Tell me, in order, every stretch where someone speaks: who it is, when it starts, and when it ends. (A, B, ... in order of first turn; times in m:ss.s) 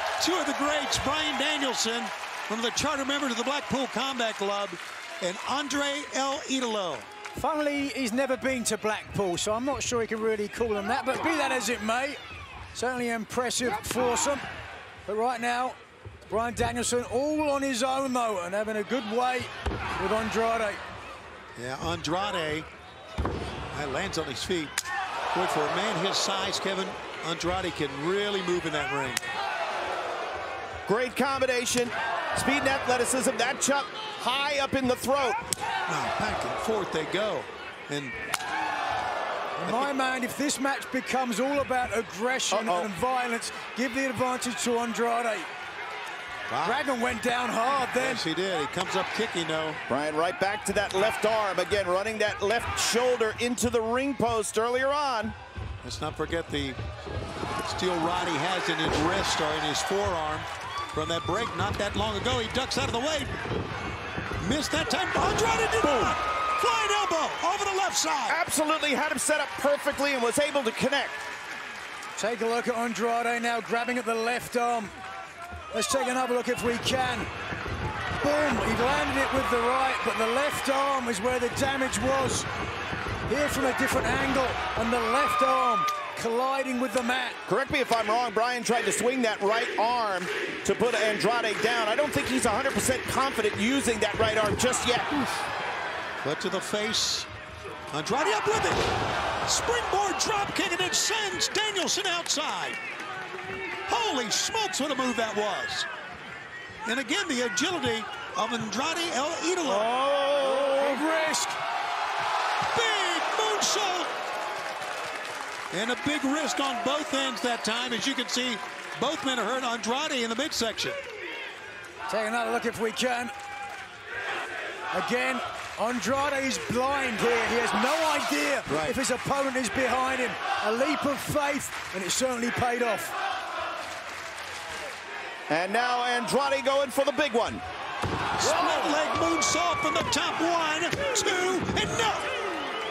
0:00.2-0:07.1 A
0:07.4-0:12.2 B
0:12.7-0:14.5 B
0:15.0-0:15.8 B
0:16.3-0:20.8 B
0:21.6-0:22.7 A
0:23.7-0:24.7 A
0:25.3-0:29.2 A
0:30.9-0:35.4 C
0:35.9-0:38.2 A
0:39.6-0:45.5 B
0:42.5-0:42.9 C
0:46.5-0:46.8 A
0:46.6-0:48.2 B
0:48.0-0:49.8 A
0:49.9-0:55.3 C
0:55.8-0:56.8 A
0:57.6-1:03.3 A
1:04.4-1:08.4 A
1:05.8-1:06.1 C
1:08.3-1:11.2 C
1:12.2-1:14.9 B
1:15.7-1:17.3 B
1:18.2-1:22.5 B
1:23.3-1:27.4 B
1:27.5-1:35.2 C
1:36.2-1:37.3 A
1:37.9-1:38.8 A
1:39.4-1:42.8 A
1:43.9-1:45.9 A
1:46.9-1:49.9 A
1:49.6-1:51.6 B
1:50.4-1:51.0 C
1:52.7-1:54.1 A
1:55.7-2:01.0 A
2:02.1-2:03.3 B
2:04.9-2:13.2 B
2:08.7-2:08.9 A
2:15.5-2:17.6 C
2:18.4-2:22.3 A
2:18.4-2:19.0 B